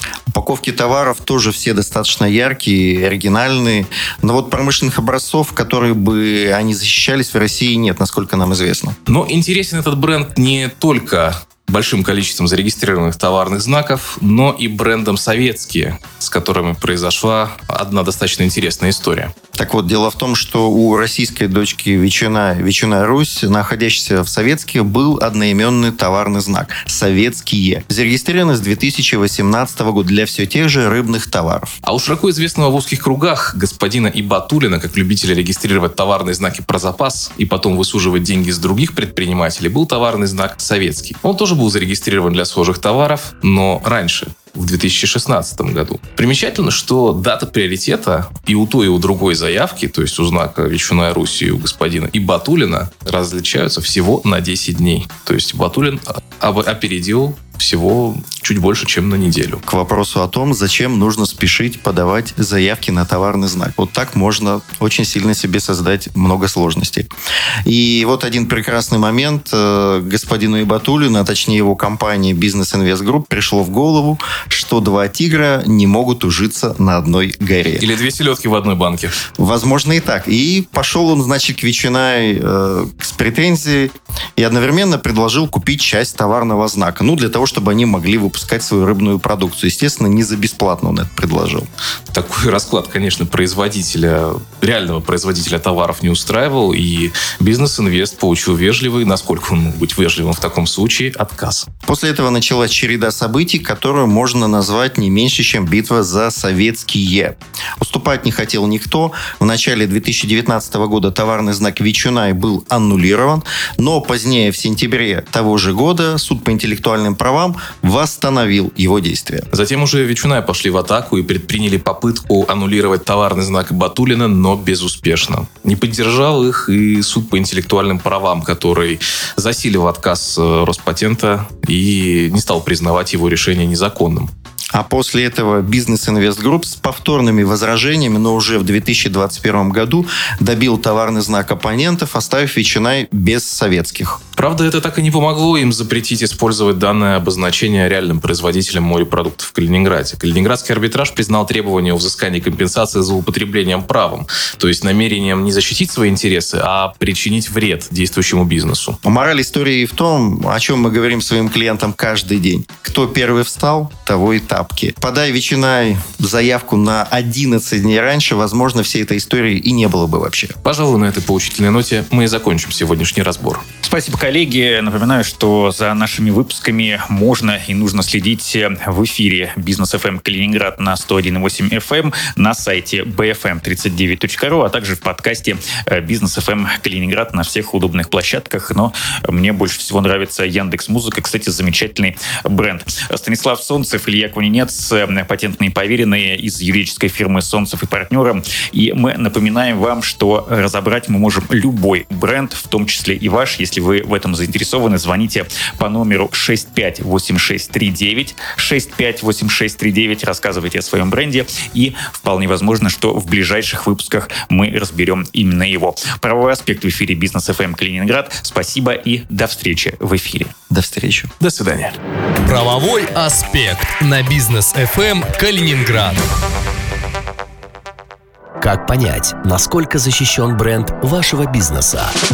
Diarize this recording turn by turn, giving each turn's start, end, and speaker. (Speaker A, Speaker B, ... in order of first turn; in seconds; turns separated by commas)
Speaker A: 0.3-8.9, Speaker B: 9.1-19.3, Speaker A: 19.6-31.7, Speaker B: 31.8-59.6, Speaker A: 59.7-67.1, Speaker A: 67.7-77.8, Speaker B: 77.8-79.1, Speaker A: 79.4-91.7, Speaker B: 92.1-101.7, Speaker A: 101.8-119.5, Speaker B: 119.5-134.3, Speaker A: 134.7-144.2, Speaker B: 144.4-159.0, Speaker A: 159.0-170.5, Speaker B: 170.6-173.6, Speaker C: 173.8-220.5, Speaker A: 220.7-221.3, Speaker B: 221.4-222.0, Speaker D: 222.4-226.2, Speaker E: 228.6-232.2